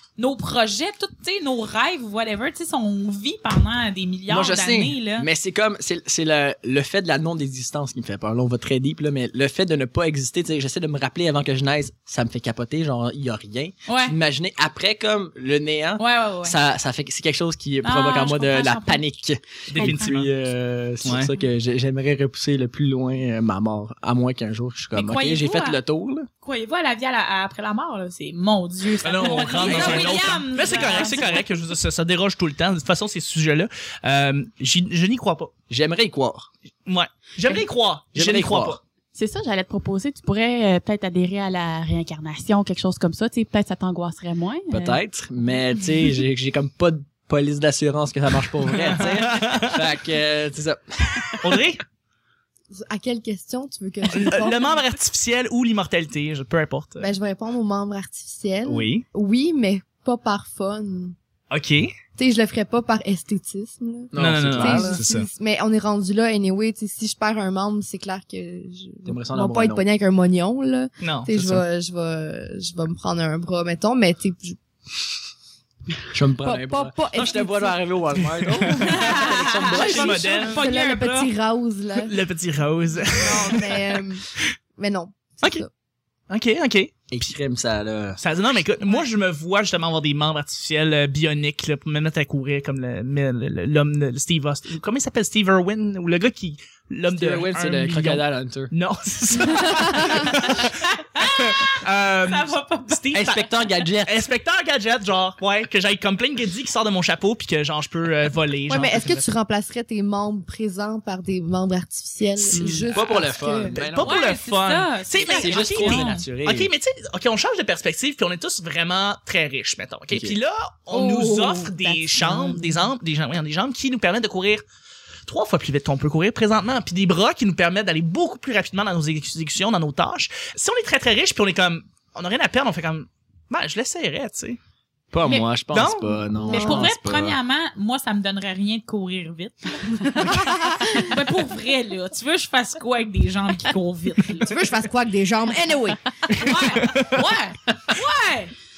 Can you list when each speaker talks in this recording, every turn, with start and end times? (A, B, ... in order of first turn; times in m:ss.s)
0:00.2-0:05.3 A
0:04.3-0:26.3 B
0:13.9-0:14.2 A
0:16.0-0:16.6 A
0:17.8-0:19.0 A
0:19.7-0:20.3 C
0:19.8-0:20.1 A
0:21.0-0:21.3 C
0:24.9-0:25.8 A
0:26.4-0:31.4 A
0:29.0-0:35.5 C
0:29.6-0:30.3 B
0:30.6-0:31.3 D
0:35.7-0:36.5 B
0:36.8-0:38.8 C
0:38.1-0:38.8 B
0:39.1-0:45.0 D
0:44.7-0:51.5 B
0:48.7-0:49.8 C
0:51.4-0:51.8 C
0:52.7-0:54.8 E
0:54.1-0:57.1 C
0:57.0-1:01.2 E
0:58.6-0:59.0 C
1:01.5-1:01.9 C
1:02.2-1:14.6 E
1:04.1-1:05.0 B
1:04.2-1:05.3 C
1:09.0-1:09.8 B
1:11.0-1:11.6 C
1:16.1-1:20.2 B
1:16.4-1:18.0 E
1:18.4-1:18.7 C
1:18.6-1:22.2 E
1:18.8-1:21.3 A
1:19.7-1:20.6 C
1:22.0-1:24.0 C
1:23.0-1:24.2 E
1:24.8-1:25.7 E
1:26.3-1:26.9 C
1:27.1-1:28.2 B
1:28.2-1:43.4 C
1:37.1-1:38.7 B
1:40.6-1:43.1 A
1:43.1-1:44.2 B
1:44.0-1:49.2 C
1:48.7-1:53.8 E
1:52.5-1:52.8 C
1:52.5-1:52.8 D
1:52.9-1:54.1 B
1:53.8-2:04.6 C
1:54.0-1:56.2 A
1:55.2-1:56.7 B
2:00.1-2:00.4 B
2:00.9-2:02.8 E
2:02.2-2:02.7 D
2:05.2-2:14.6 C
2:15.1-2:17.4 B
2:15.7-2:16.2 C
2:16.4-2:16.9 E
2:16.4-2:24.6 A
2:20.2-2:21.0 E
2:24.5-2:26.0 E
2:26.3-2:28.5 A
2:26.7-2:27.2 C